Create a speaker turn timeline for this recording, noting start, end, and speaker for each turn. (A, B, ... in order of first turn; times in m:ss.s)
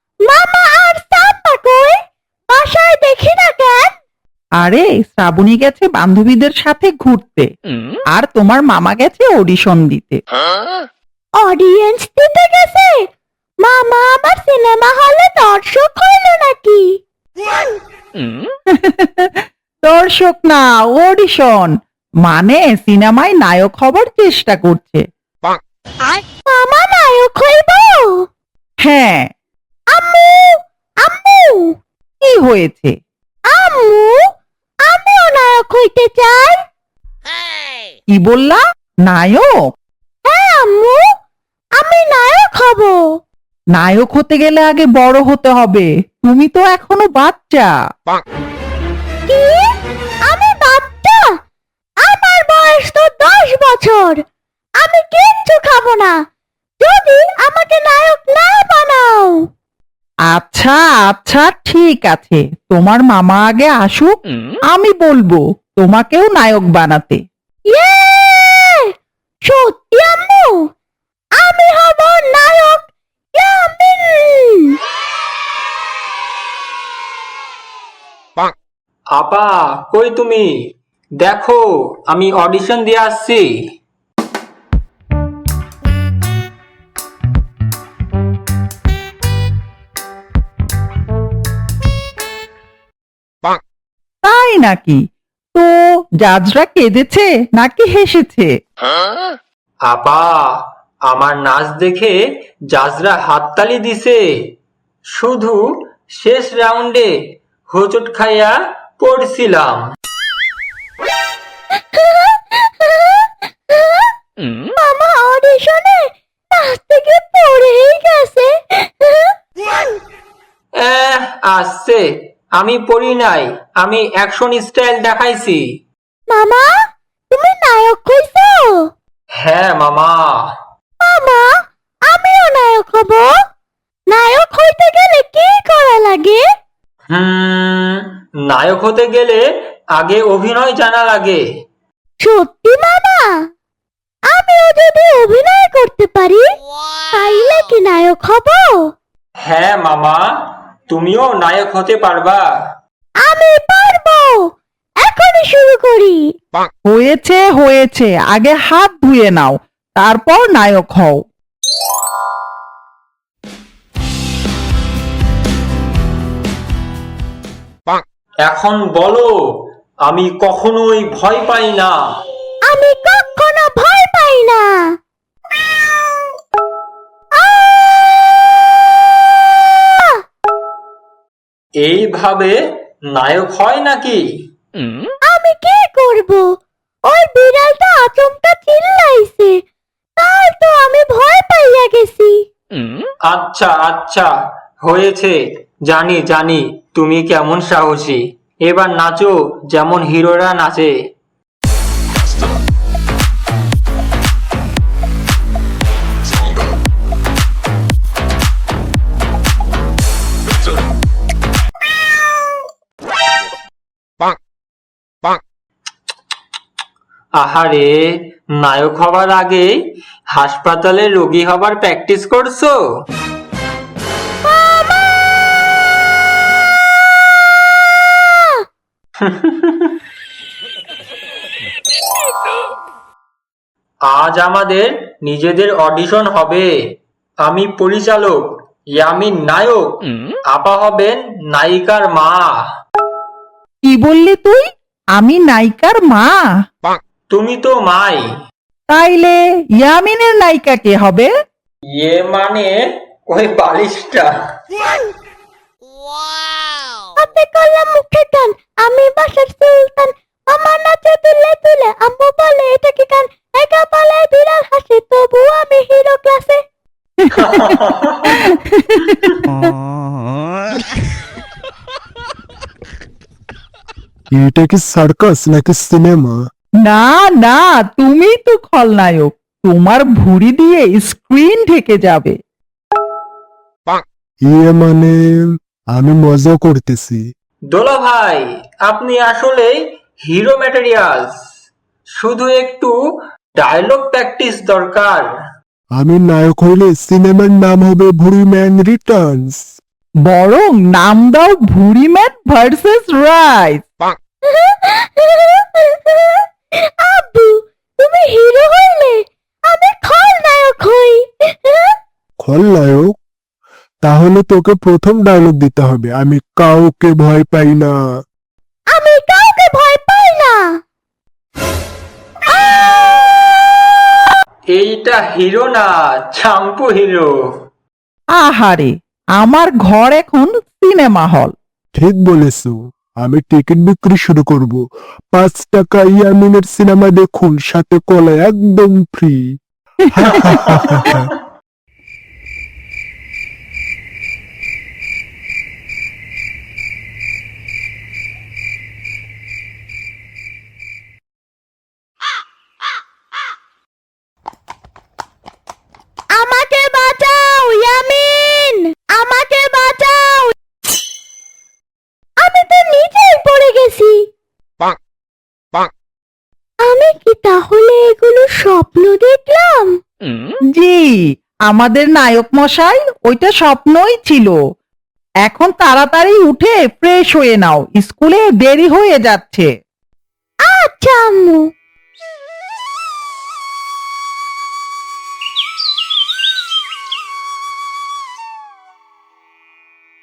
0:00.2-0:02.0 A
0:02.5-0:04.0 A
0:04.6-0:07.5 B
0:08.1-0:10.2 B
0:11.4-0:13.0 A
0:13.6-0:16.8 A
0:18.7-0:21.7 B
0:22.2-0:25.0 B
0:26.0-0:28.2 A
0:28.8-0:29.3 B
0:29.9-0:31.7 A
0:32.2-0:32.9 B
0:33.5-0:34.2 A
0:34.9-0:36.6 A
0:38.1-0:39.5 B
0:40.2-0:41.0 A
0:41.8-0:43.0 A
0:43.7-0:47.7 B
0:49.3-0:49.7 A
0:50.2-0:51.3 A
0:52.0-0:54.2 A
0:54.8-0:56.2 A
0:56.8-0:59.4 A
1:00.3-1:04.2 B
1:04.7-1:07.2 B
1:07.7-1:08.9 A
1:09.4-1:10.6 A
1:11.4-1:14.8 A
1:19.1-1:20.5 C
1:21.2-1:23.5 C
1:34.2-1:35.0 B
1:35.5-1:38.5 B
1:39.9-1:42.2 C
1:42.7-1:44.2 C
1:45.1-1:45.6 C
1:46.2-1:47.1 C
1:47.7-1:49.8 C
1:51.9-1:54.1 A
1:54.8-1:59.3 A
2:00.8-2:02.0 C
2:02.6-2:05.6 C
2:06.3-2:06.7 A
2:07.3-2:08.8 A
2:09.4-2:10.4 C
2:11.0-2:11.5 A
2:12.1-2:13.3 A
2:14.1-2:16.4 A
2:17.1-2:19.4 C
2:19.9-2:21.4 C
2:22.2-2:23.3 A
2:24.3-2:26.5 A
2:27.1-2:28.8 A
2:29.4-2:30.2 C
2:30.9-2:32.4 C
2:33.2-2:34.5 A
2:35.0-2:36.3 A
2:36.9-2:41.2 B
2:48.4-2:49.4 C
2:50.0-2:52.0 C
2:52.7-2:54.9 A
2:57.4-2:57.8 A
2:59.7-3:00.2 A
3:01.8-3:02.6 C
3:03.1-3:04.2 C
3:05.2-3:06.5 A
3:07.0-3:09.6 A
3:10.2-3:12.4 A
3:13.3-3:14.3 C
3:14.8-3:15.4 C
3:15.9-3:20.9 C
3:37.4-3:39.8 C
3:40.3-3:42.8 C
3:44.4-3:45.1 A
3:49.2-3:50.0 C
3:54.1-3:56.7 C
3:57.4-3:58.4 C
3:59.0-4:02.5 C
4:03.8-4:04.6 B
4:05.2-4:06.4 B
4:07.3-4:08.2 C
4:08.9-4:11.3 B
4:12.0-4:12.8 C
4:13.3-4:14.3 C
4:17.2-4:26.6 A
4:27.3-4:28.4 C
4:27.4-4:27.8 B
4:28.4-4:29.7 B
4:34.3-4:36.4 D
4:36.8-4:42.4 B
4:44.5-4:45.1 D
4:45.9-4:47.2 D
4:47.7-4:51.4 C
4:52.2-4:52.9 C
4:53.6-4:55.3 C
4:56.0-4:59.6 D
5:00.3-5:03.8 B
5:04.5-5:11.9 A
5:12.4-5:13.1 D
5:14.0-5:17.9 D
5:18.9-5:20.7 A
5:24.7-5:27.3 C
5:28.4-5:31.5 B
5:32.0-5:34.8 D
5:35.3-5:39.4 D
5:40.1-5:41.3 D
5:56.3-6:00.5 A
6:02.4-6:04.2 A
6:06.8-6:09.9 A
6:10.7-6:11.2 B
6:11.7-6:14.6 B
6:15.4-6:19.7 B
6:20.6-6:21.6 A